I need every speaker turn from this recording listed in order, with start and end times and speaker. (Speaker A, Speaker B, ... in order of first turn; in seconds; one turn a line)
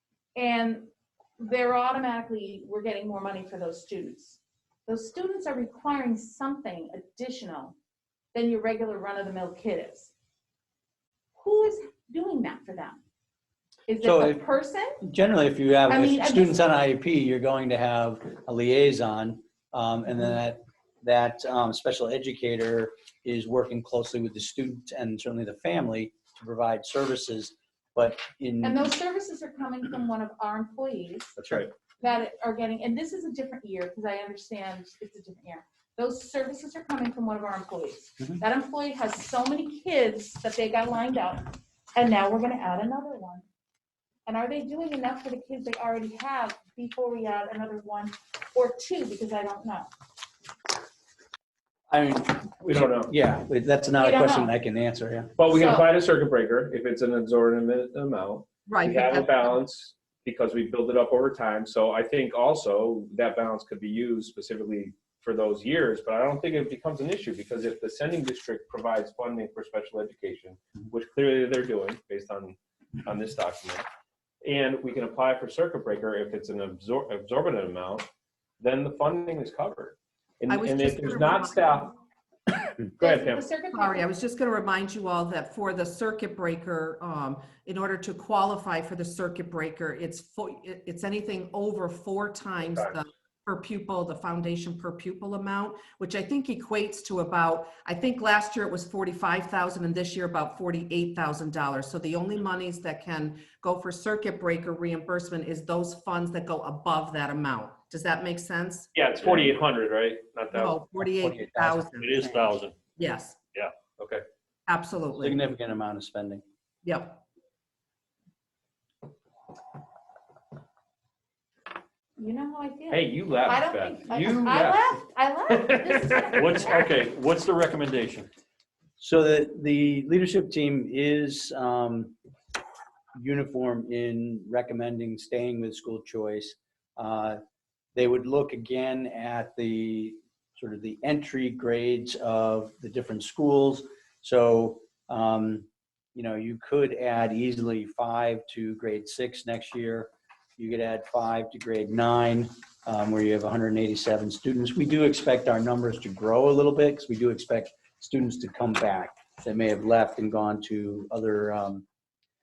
Speaker A: 0.3-7.7
Speaker A: 8.3-10.1
Speaker A: 11.4-13.0
Speaker A: 13.9-15.0
Speaker B: 14.0-14.4
Speaker B: 15.0-28.9
Speaker A: 15.9-16.6
Speaker A: 28.6-31.4
Speaker B: 31.4-31.6
Speaker A: 32.0-43.4
Speaker A: 44.3-49.9
Speaker B: 51.9-55.4
Speaker C: 52.6-53.1
Speaker A: 54.0-54.5
Speaker C: 55.4-73.8
Speaker A: 55.5-55.9
Speaker D: 58.6-59.5
Speaker C: 74.4-78.1
Speaker C: 78.6-81.9
Speaker D: 80.5-81.9
Speaker A: 83.0-84.0
Speaker C: 83.0-83.4
Speaker D: 83.7-108.9
Speaker C: 92.6-92.9
Speaker C: 108.9-110.8
Speaker B: 109.2-109.5
Speaker D: 110.5-112.2
Speaker B: 111.0-112.5
Speaker E: 112.0-112.8
Speaker D: 113.0-113.4
Speaker C: 113.9-114.2
Speaker D: 114.7-115.4
Speaker B: 115.2-116.4
Speaker D: 116.8-117.2
Speaker A: 122.2-126.8
Speaker C: 122.9-124.9
Speaker C: 125.5-126.6
Speaker E: 126.3-128.3
Speaker B: 129.0-132.2
Speaker B: 133.1-137.4
Speaker B: 137.9-161.8